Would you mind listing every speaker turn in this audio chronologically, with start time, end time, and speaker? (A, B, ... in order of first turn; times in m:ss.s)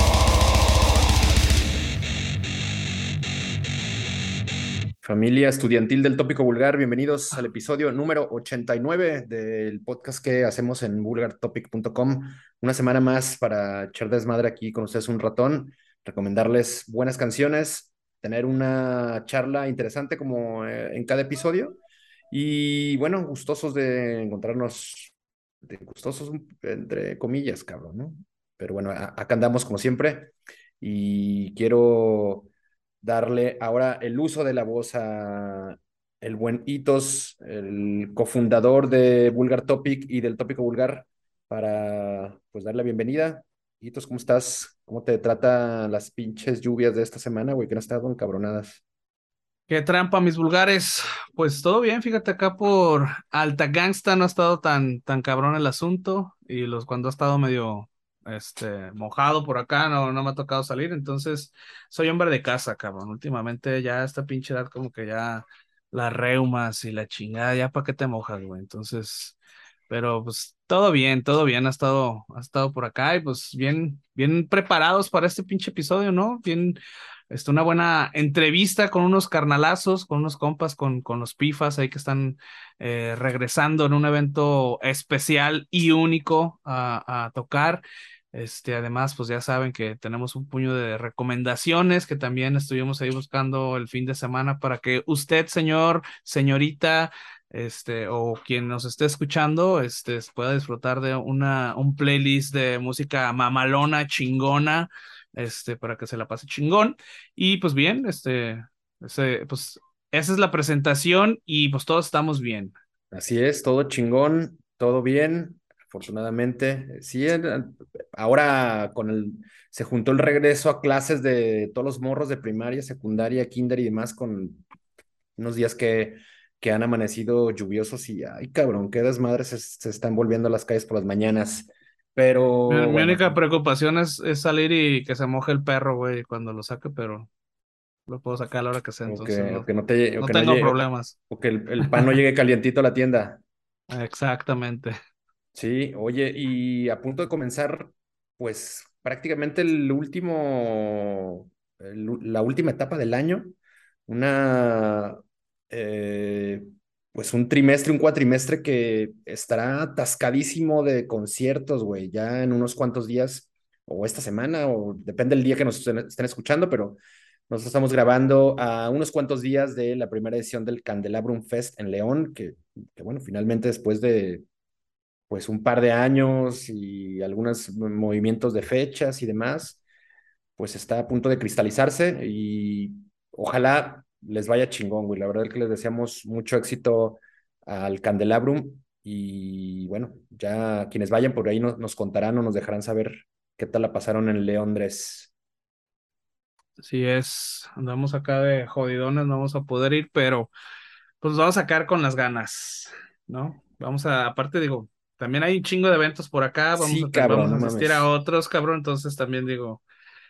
0:05.0-0:21.8 A
0:22.3-0:25.1 A
0:25.6-0:32.5 A
0:33.0-0:48.8 A
0:49.7-1:09.4 B
1:09.9-1:16.8 B
1:17.3-1:52.7 B
1:53.1-2:04.6 A
2:05.4-2:13.4 A
2:12.7-2:17.3 B
2:18.1-2:19.7 B
2:19.0-2:23.4 A
2:20.2-2:21.1 B
2:23.9-2:25.0 B
2:25.5-2:33.5 A
2:34.1-2:54.4 A
2:55.3-2:59.8 A
3:00.6-3:15.3 A
3:16.8-3:20.5 B
3:21.2-3:29.8 B
3:26.7-3:28.1 A